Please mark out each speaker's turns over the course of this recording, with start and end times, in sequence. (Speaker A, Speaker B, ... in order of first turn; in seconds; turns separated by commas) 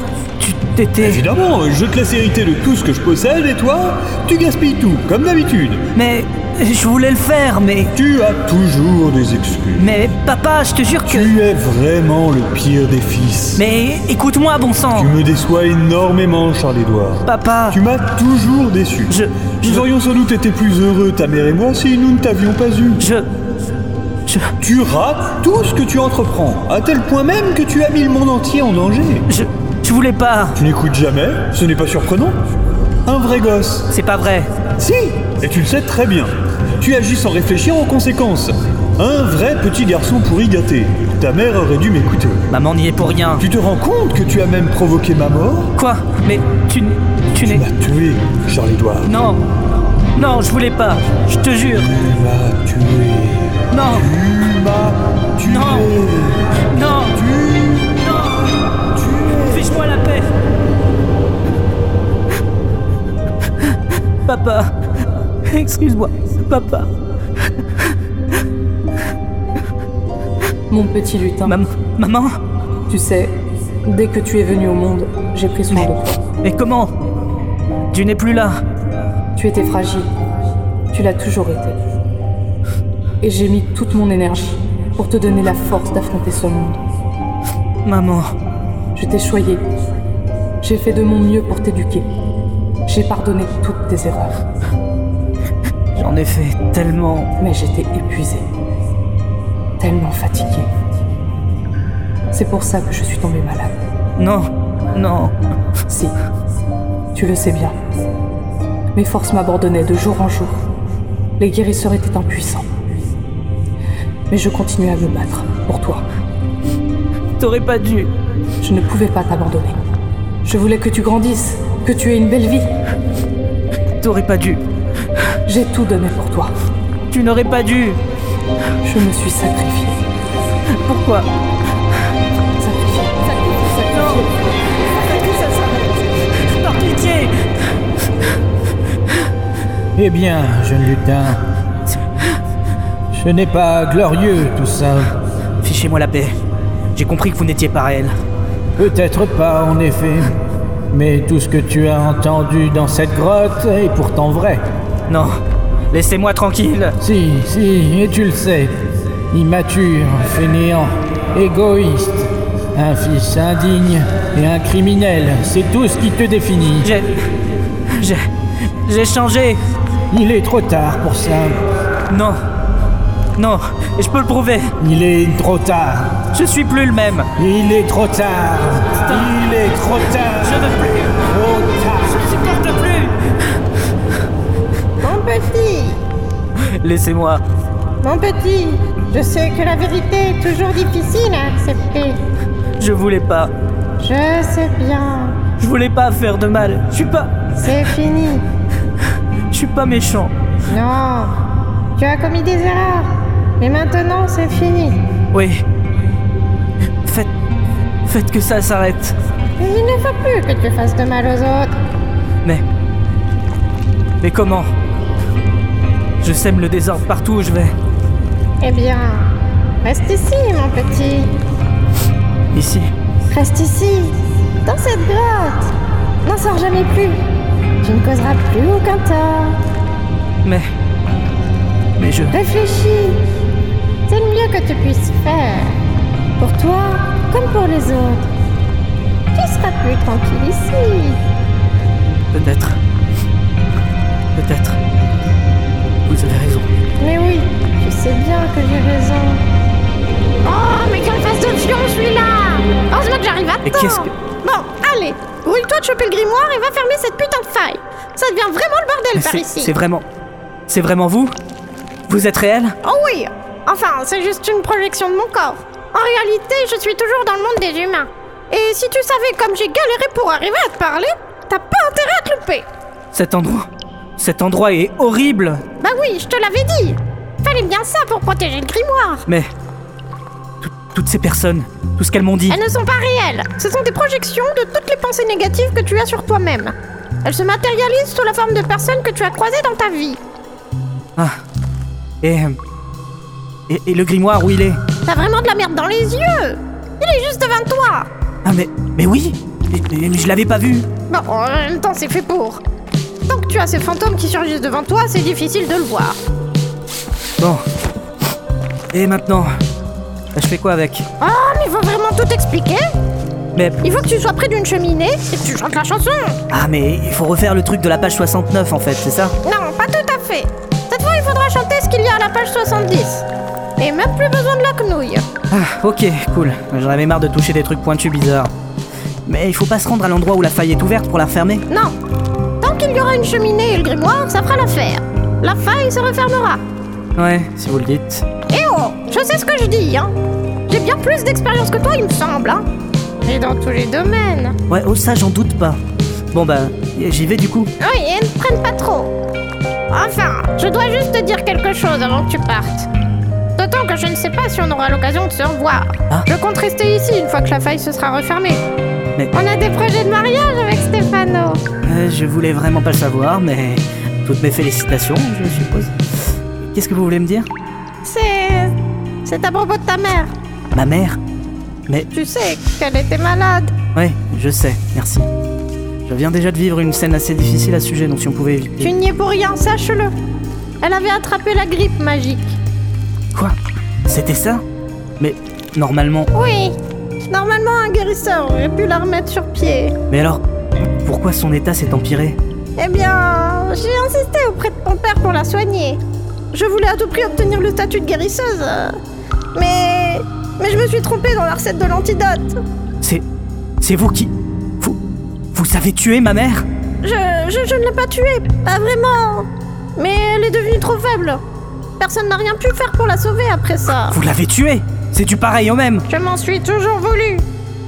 Speaker A: 0.4-1.2, Speaker B: 1.0-5.8, Speaker A: 5.9-7.9, Speaker B: 7.9-9.9, Speaker A: 9.8-11.3, Speaker B: 11.1-13.6, Speaker A: 13.6-15.1, Speaker B: 14.9-23.0, Speaker A: 17.2-17.8, Speaker A: 19.1-19.9, Speaker A: 23.0-23.3, Speaker B: 24.6-29.2, Speaker A: 29.3-30.6, Speaker B: 30.6-32.4, Speaker B: 33.0-33.9, Speaker A: 33.9-34.5, Speaker B: 34.8-42.4, Speaker A: 42.5-43.4, Speaker B: 43.4-45.7, Speaker A: 45.8-47.6, Speaker B: 47.4-49.1, Speaker A: 49.0-49.4, Speaker A: 50.1-51.9, Speaker B: 51.7-56.6, Speaker A: 53.7-54.1, Speaker A: 55.4-55.9, Speaker A: 56.7-57.2, Speaker B: 57.1-58.2, Speaker A: 58.1-58.4, Speaker B: 59.0-59.6, Speaker A: 59.3-60.3, Speaker A: 64.2-64.7, Speaker A: 65.5-66.9, Speaker C: 70.7-71.6, Speaker A: 71.4-72.4, Speaker C: 72.9-76.2, Speaker A: 76.4-76.9, Speaker A: 77.9-78.6, Speaker C: 79.3-80.1, Speaker C: 80.9-81.8, Speaker C: 83.2-86.8, Speaker A: 87.8-88.3, Speaker C: 88.9-89.6, Speaker C: 90.6-92.1, Speaker C: 92.8-94.4, Speaker A: 96.0-97.3, Speaker C: 97.4-98.4, Speaker C: 99.8-100.7, Speaker C: 102.3-103.7, Speaker A: 104.2-105.3, Speaker C: 105.9-106.1, Speaker C: 107.1-107.7, Speaker C: 108.9-110.6, Speaker C: 111.4-112.7, Speaker C: 114.3-116.0, Speaker A: 117.4-118.1, Speaker C: 118.6-119.8, Speaker C: 120.4-122.7, Speaker A: 124.0-124.6, Speaker C: 125.5-126.5, Speaker A: 127.1-128.0, Speaker C: 128.8-130.0, Speaker A: 130.8-131.3, Speaker C: 132.6-134.3, Speaker A: 133.9-134.2, Speaker D: 135.0-135.9, Speaker A: 136.4-137.3, Speaker E: 139.9-141.4, Speaker E: 143.1-145.1, Speaker A: 145.6-146.3, Speaker A: 146.9-148.2, Speaker E: 148.8-150.4, Speaker E: 150.9-154.6, Speaker A: 155.1-155.4, Speaker A: 155.9-156.9, Speaker E: 157.0-158.8, Speaker E: 159.3-166.9, Speaker A: 166.8-167.3, Speaker A: 167.9-169.6, Speaker E: 170.1-171.6, Speaker A: 172.1-172.4, Speaker A: 173.4-174.7, Speaker E: 174.8-176.2, Speaker A: 176.3-177.3, Speaker E: 177.4-182.2, Speaker A: 179.0-179.3, Speaker A: 180.3-181.2, Speaker A: 182.0-183.2, Speaker D: 185.0-186.0, Speaker A: 186.5-187.4, Speaker D: 188.0-192.2, Speaker A: 192.8-193.5, Speaker D: 194.0-195.5, Speaker A: 195.5-197.5, Speaker D: 197.6-198.4, Speaker A: 199.5-200.3, Speaker D: 200.7-201.3, Speaker D: 202.0-205.0, Speaker A: 205.3-205.6, Speaker A: 207.0-207.3, Speaker A: 208.1-209.2, Speaker D: 209.6-211.8, Speaker A: 214.2-214.7, Speaker A: 216.2-217.7, Speaker D: 218.6-219.3, Speaker D: 219.8-221.3, Speaker A: 222.5-222.9, Speaker D: 223.3-225.7, Speaker D: 226.2-227.2, Speaker D: 227.8-229.6, Speaker A: 230.4-230.7, Speaker A: 232.0-232.3, Speaker D: 232.3-233.2, Speaker D: 234.1-235.8, Speaker D: 236.4-238.3, Speaker D: 239.3-241.2, Speaker A: 242.3-242.8, Speaker A: 244.3-244.8, Speaker A: 246.1-246.7, Speaker D: 247.0-249.4, Speaker D: 250.4-259.7, Speaker A: 253.6-254.1, Speaker A: 259.1-260.0, Speaker A: 260.7-261.3, Speaker A: 262.1-262.8, Speaker D: 262.8-272.7, Speaker A: 273.1-275.6, Speaker D: 275.8-279.3, Speaker A: 280.6-282.6, Speaker D: 282.5-286.7, Speaker D: 287.2-290.2, Speaker A: 292.2-292.6, Speaker A: 293.7-294.8, Speaker D: 295.0-298.1, Speaker A: 298.4-300.9, Speaker D: 301.1-302.6, Speaker D: 303.3-306.2, Speaker A: 308.9-309.5, Speaker A: 310.3-311.1, Speaker D: 311.2-312.9, Speaker A: 313.5-313.8, Speaker D: 313.8-316.4, Speaker A: 316.5-319.3, Speaker D: 319.4-323.2, Speaker D: 323.8-325.3, Speaker A: 325.5-328.5, Speaker A: 329.2-331.6, Speaker D: 331.7-331.9, Speaker D: 332.6-336.6, Speaker A: 337.1-338.2, Speaker D: 338.5-340.1, Speaker D: 340.7-342.6, Speaker D: 343.2-344.6, Speaker A: 344.7-345.8, Speaker A: 346.3-347.7, Speaker D: 347.8-349.1, Speaker D: 349.9-352.9, Speaker D: 353.6-358.6, Speaker D: 359.3-361.6, Speaker A: 361.8-366.0, Speaker A: 366.6-367.5, Speaker D: 368.0-370.3, Speaker A: 370.7-371.2, Speaker D: 372.1-373.7, Speaker A: 373.9-375.3, Speaker A: 376.1-378.9, Speaker D: 378.8-380.1, Speaker D: 380.8-382.6, Speaker A: 384.1-384.6, Speaker A: 385.2-386.3, Speaker D: 386.3-386.8, Speaker D: 387.3-389.9, Speaker A: 390.1-390.4, Speaker A: 391.0-392.4, Speaker D: 392.8-396.0, Speaker D: 396.5-398.9, Speaker D: 399.5-402.6, Speaker A: 403.8-405.0, Speaker A: 405.5-406.6, Speaker D: 407.0-411.4, Speaker D: 412.0-414.2, Speaker A: 414.1-416.1, Speaker D: 416.1-417.5